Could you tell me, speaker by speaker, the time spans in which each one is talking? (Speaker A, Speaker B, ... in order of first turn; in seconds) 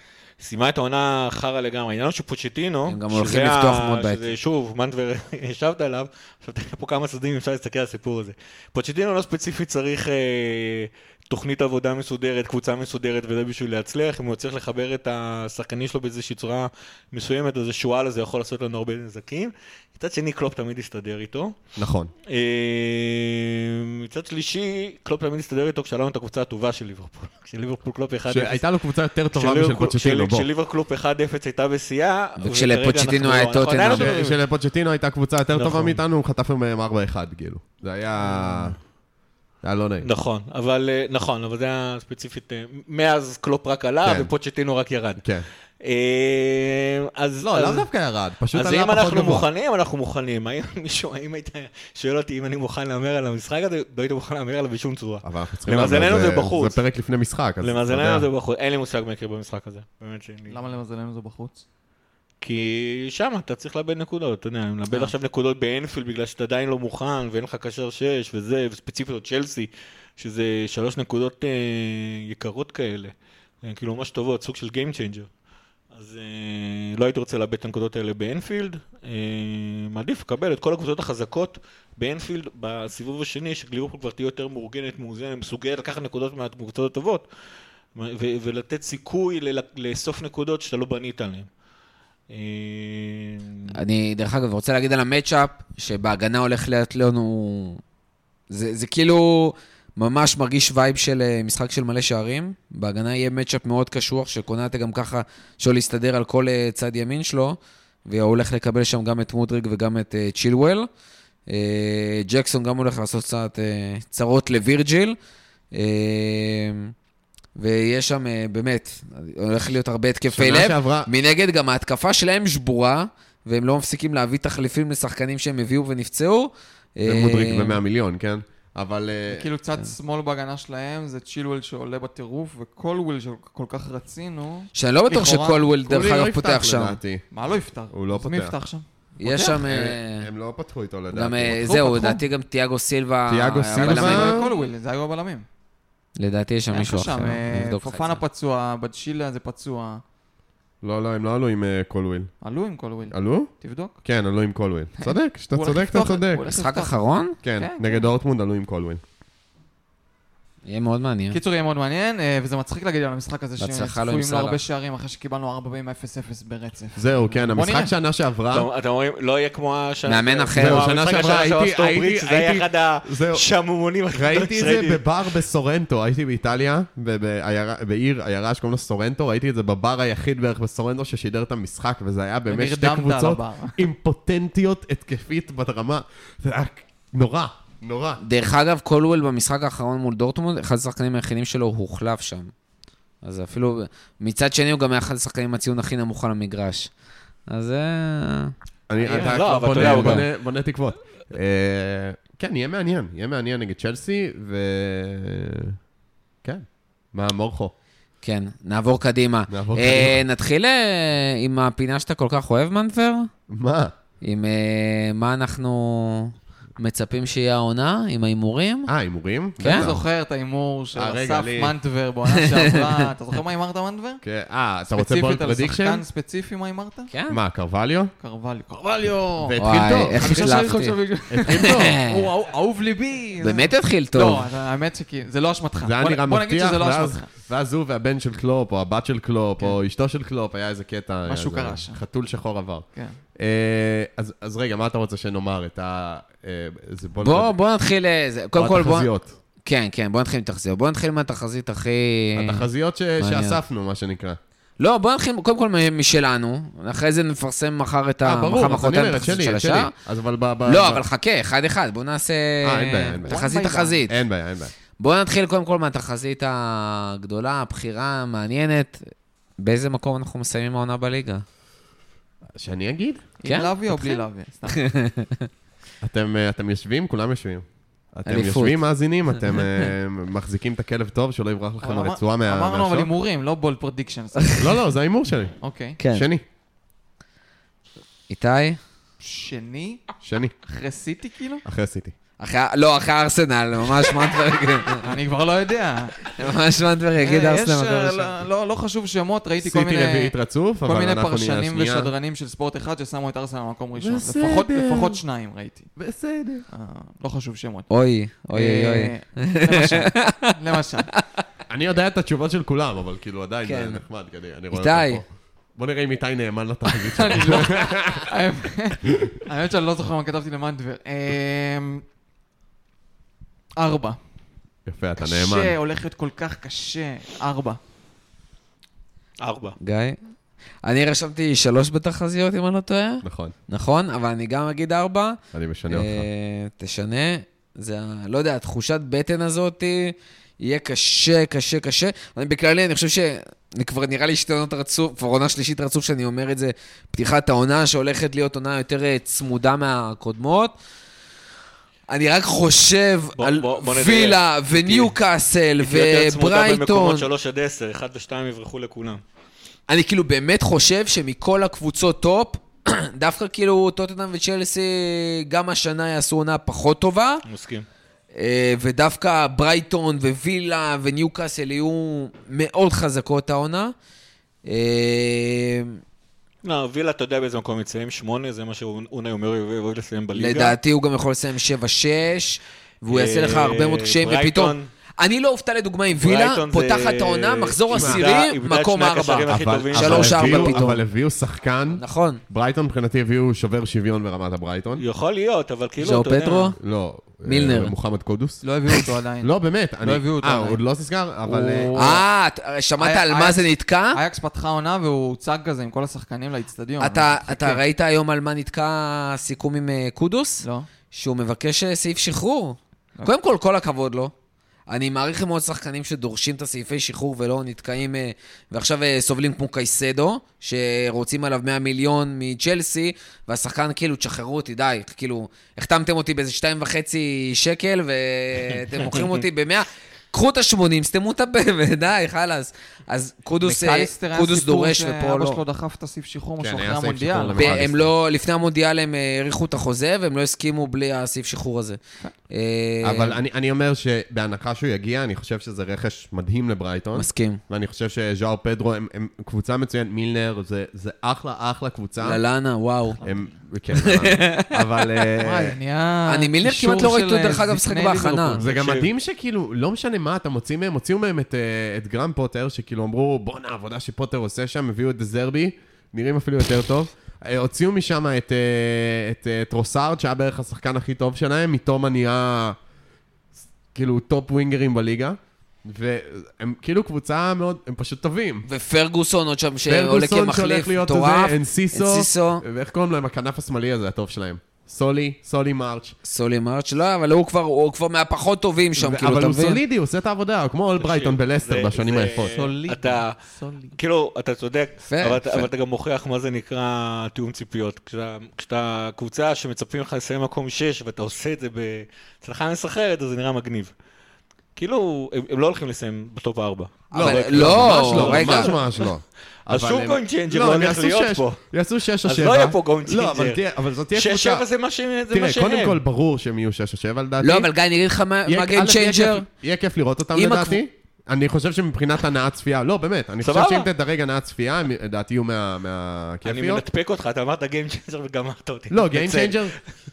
Speaker A: 0.4-21.6, 22.3-28.6, 29.3-34.4, 35.5-36.0, 40.0-45.2, 45.8-47.9, 48.5-56.8, 57.6-60.6, 62.4-75.3, 75.9-87.3, 87.9-91.5, 92.3-93.8, 168.5-175.0, 199.0-200.3, 329.4-329.8, 353.4-355.1, 355.8-359.2, 367.4-367.9, 376.6-380.8, 383.1-384.9, 386.1-390.9, 395.0-396.8, 428.9-429.4, 458.6-459.1, 491.0-493.4, 493.9-503.9, 504.8-509.1, 509.7-511.6, 512.2-513.6, 514.1-516.0, 523.4-523.9, 526.4-529.8
Speaker B: 2.9-4.3, 32.4-34.1, 93.7-97.8, 98.5-110.9, 111.5-115.2, 115.7-116.9, 117.5-127.8, 134.7-137.0, 139.2-140.3, 141.1-144.5, 146.2-148.2, 156.5-157.4, 160.6-161.4, 163.6-164.6, 170.1-170.9, 188.2-192.5, 193.2-196.9, 197.5-198.5, 199.8-200.2, 208.2-213.3, 214.2-218.9, 219.6-219.9, 222.5-222.9, 227.1-227.4, 229.6-230.9, 231.5-232.3, 233.4-234.5, 247.2-249.1, 249.6-252.7, 253.2-253.6, 254.8-259.9, 260.6-264.1, 265.0-269.0, 269.6-271.4, 273.4-275.5, 278.2-278.8, 286.0-286.3, 288.3-288.8, 292.4-295.1, 296.3-298.4, 307.9-310.5, 313.6-314.0, 314.7-315.2, 329.8-330.2, 330.8-335.4, 335.9-350.7, 352.1-357.2, 359.9-367.4, 368.3-373.9, 374.6-376.0, 380.3-391.0, 392.0-392.4, 396.0-396.8, 397.4-397.9, 401.9-404.2, 407.0-414.3, 414.9-435.6, 437.6-443.4, 447.1-447.6, 452.2-453.2, 454.0-454.9, 456.3-458.6, 478.7-482.6, 486.2-489.8, 495.1-495.7, 507.1-508.7, 517.4-519.4, 520.3-520.8
Speaker C: 21.8-22.1, 28.3-30.5, 33.9-38.8, 39.6-40.1, 44.0-44.3, 45.2-45.5, 47.4-49.5, 55.2-58.2, 120.3-121.1, 127.0-129.5, 135.8-137.2, 137.9-138.5, 139.5-141.8, 143.3-144.5, 150.8-152.3, 153.1-153.5, 154.0-156.5, 157.4-159.0, 166.9-168.7, 170.5-173.4, 174.1-188.2, 198.9-205.8, 206.4-207.7, 209.5-210.2, 213.5-213.9, 218.9-220.0, 220.9-221.7, 224.2-226.0, 227.3-228.1, 229.4-232.0, 235.8-242.8, 243.3-247.5, 248.5-249.3, 252.3-254.4, 258.2-261.0, 262.6-263.5, 264.1-264.7, 272.5-273.2, 276.0-283.1, 284.6-286.4, 290.2-290.5, 291.6-292.1, 299.6-302.1, 304.0-305.2, 306.0-306.6, 311.7-318.3, 319.0-319.4, 324.9-325.8, 333.2-333.5, 335.5-336.3, 387.9-388.2, 389.5-395.0, 396.8-398.6, 399.4-402.2, 436.6-438.1, 443.0-452.4, 453.2-455.7, 458.6-472.8, 473.9-478.6, 479.9-486.2, 488.9-492.6, 507.1-514.6, 515.3-517.7, 518.5-526.8, 528.9-529.8
Speaker D: 60.5-61.6, 129.3-135.7, 137.3-139.6, 141.5-142.2, 143.7-145.4, 146.7-150.0, 152.4-154.0, 155.0-157.0, 157.5-158.0, 161.3-167.9, 182.5-183.9, 219.6-224.2, 224.9-227.1, 228.2-237.3, 241.2-242.0, 263.2-264.0, 273.4-274.8, 281.8-284.8, 285.6-286.0, 289.2-290.0, 290.6-291.6, 295.0-296.3, 297.2-305.9, 306.7-307.9, 308.5-311.1, 316.9-322.0, 323.8-324.2, 325.2-327.8, 398.6-400.8, 401.4-402.2, 403.0-407.8, 410.6-410.9, 433.6-437.8, 453.2-453.5, 455.4-458.6, 492.5-493.9